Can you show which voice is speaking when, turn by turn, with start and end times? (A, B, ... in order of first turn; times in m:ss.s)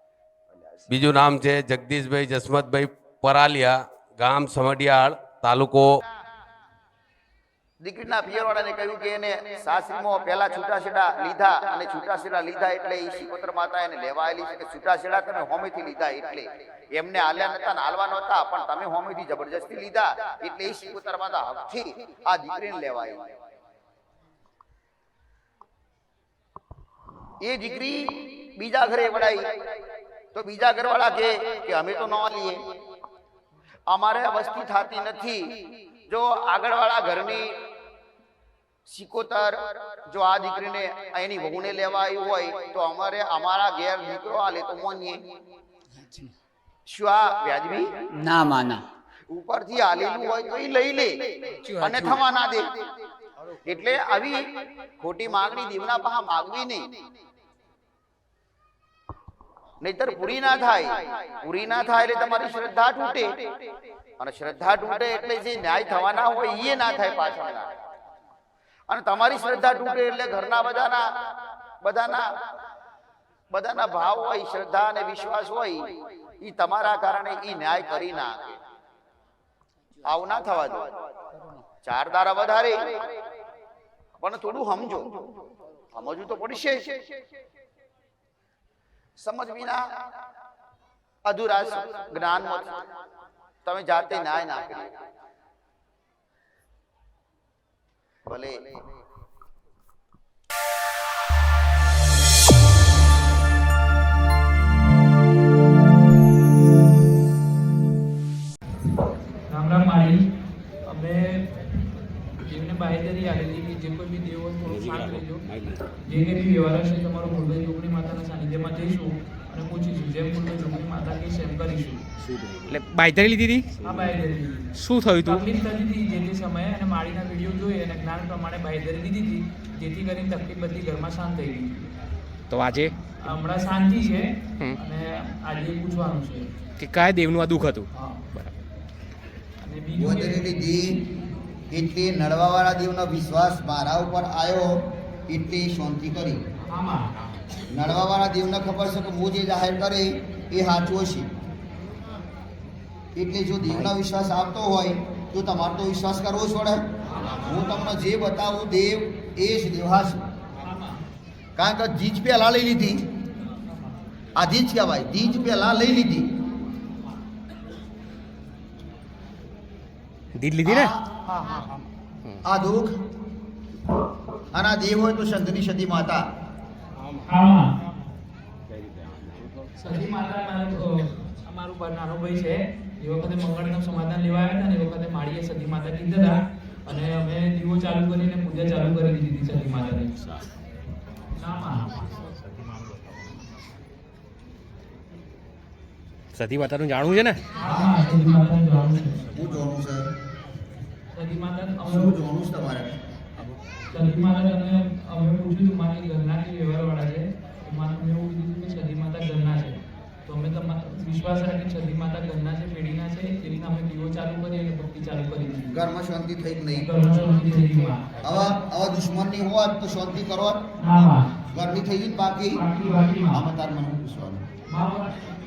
0:00.5-0:00.9 A
0:00.9-0:06.0 B
0:07.8-0:23.2 A
0:27.4-0:29.5 A
0:30.3-0:32.6 A
0:33.9-0:37.6 A
0:38.9-0:45.2 A
0:46.0-0:46.4 C
0:46.9-0:47.9 A
0:48.1-0:48.8 C
0:49.3-0:52.8 A
0:51.6-0:52.2 C
0:53.5-0:56.9 A
0:59.8-1:03.4 A
1:04.2-1:07.7 A
1:08.9-1:11.1 A
1:11.8-1:12.3 A
1:13.5-1:15.9 A
1:16.4-1:18.6 A
1:20.0-1:21.0 A
1:21.3-1:21.6 C
1:21.8-1:23.2 A
1:24.2-1:25.2 A
1:25.9-1:27.1 A
1:29.2-1:29.8 A
1:31.2-1:32.8 A
1:33.6-1:34.9 A
1:38.2-1:38.7 A
1:49.5-1:50.3 D
1:50.8-1:51.5 D
1:52.4-1:55.4 D
1:54.7-1:55.7 E
1:56.0-2:02.0 D
2:02.2-2:04.2 E
2:03.8-2:11.8 D
2:04.7-2:05.5 E
2:12.5-2:13.4 E
2:13.2-2:16.5 D
2:14.5-2:14.8 E
2:16.8-2:18.6 E
2:19.6-2:20.4 D
2:19.9-2:21.0 A
2:21.7-2:26.4 A
2:26.7-2:27.1 D
2:27.7-2:31.3 A
2:33.2-2:40.2 A
2:41.6-2:43.0 A
2:44.4-2:46.3 A
2:50.4-2:51.6 E
2:50.6-2:51.0 A
2:52.4-2:53.0 A
2:54.5-2:56.2 A
2:57.3-2:57.7 D
2:59.8-3:10.1 D
3:11.4-3:11.9 D
3:16.3-3:17.4 E
3:17.5-3:19.3 D
3:17.6-3:18.1 A
3:19.3-3:20.1 A
3:21.1-3:22.2 D
3:21.8-3:23.0 A
3:23.9-3:35.7 D
3:35.7-3:36.9 A
3:36.7-3:38.6 D
3:38.2-3:42.7 A
3:40.8-3:41.4 D
3:42.5-3:43.4 D
3:43.3-3:44.4 A
3:44.7-3:45.2 D